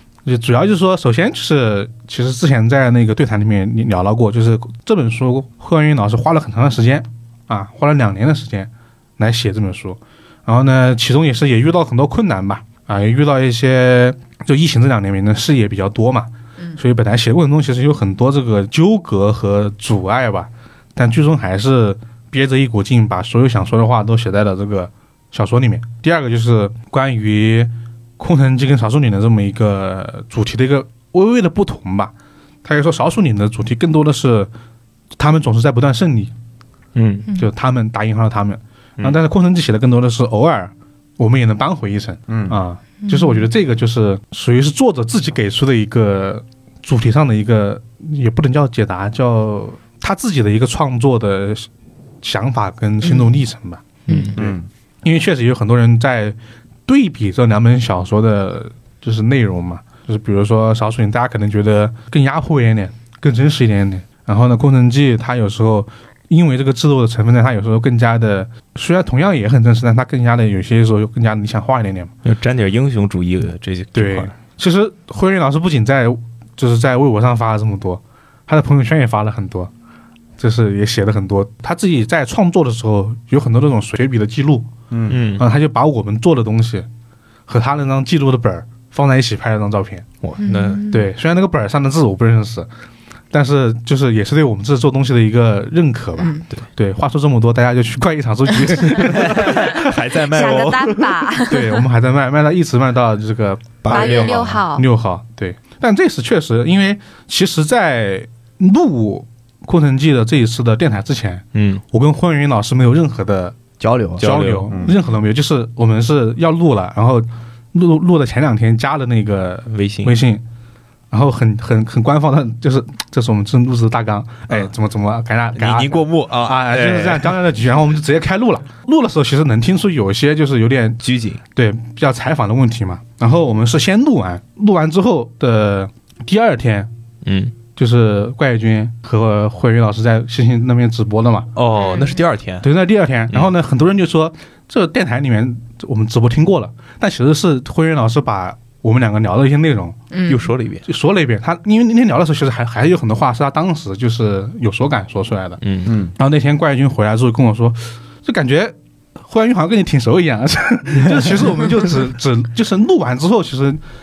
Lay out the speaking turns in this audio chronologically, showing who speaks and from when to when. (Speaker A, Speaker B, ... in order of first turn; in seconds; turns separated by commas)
Speaker A: 0.2-32.1, Speaker A: 32.6-34.5, Speaker A: 35.2-36.3, Speaker B: 37.0-37.3, Speaker A: 37.3-51.7, Speaker C: 42.3-42.6, Speaker D: 43.0-43.5, Speaker A: 52.2-53.8, Speaker D: 53.0-53.3, Speaker B: 54.1-54.4, Speaker C: 54.4-54.7, Speaker A: 55.0-72.1, Speaker B: 72.2-74.3, Speaker A: 74.0-79.7, Speaker A: 80.4-84.7, Speaker C: 84.9-85.2, Speaker B: 85.1-85.5, Speaker A: 85.4-86.9, Speaker A: 87.5-90.1, Speaker B: 90.2-90.9, Speaker D: 90.4-91.1, Speaker A: 90.9-92.7, Speaker A: 93.3-99.9, Speaker D: 96.2-96.5, Speaker B: 99.0-101.2, Speaker D: 100.3-101.8, Speaker A: 101.5-113.6, Speaker B: 103.8-104.6, Speaker D: 103.9-104.9, Speaker B: 111.5-111.8, Speaker C: 113.8-115.0, Speaker B: 114.2-114.8, Speaker A: 114.2-120.4, Speaker B: 119.7-120.2, Speaker A: 121.1-131.0, Speaker B: 125.5-127.3, Speaker B: 131.0-131.4, Speaker A: 131.6-136.9, Speaker B: 137.2-137.6, Speaker A: 137.7-141.5, Speaker B: 141.6-142.7, Speaker D: 141.8-142.2, Speaker A: 142.6-150.0, Speaker D: 150.1-150.5, Speaker B: 150.3-150.9, Speaker A: 150.9-155.6, Speaker B: 155.6-155.9, Speaker C: 155.9-156.1, Speaker A: 156.2-163.8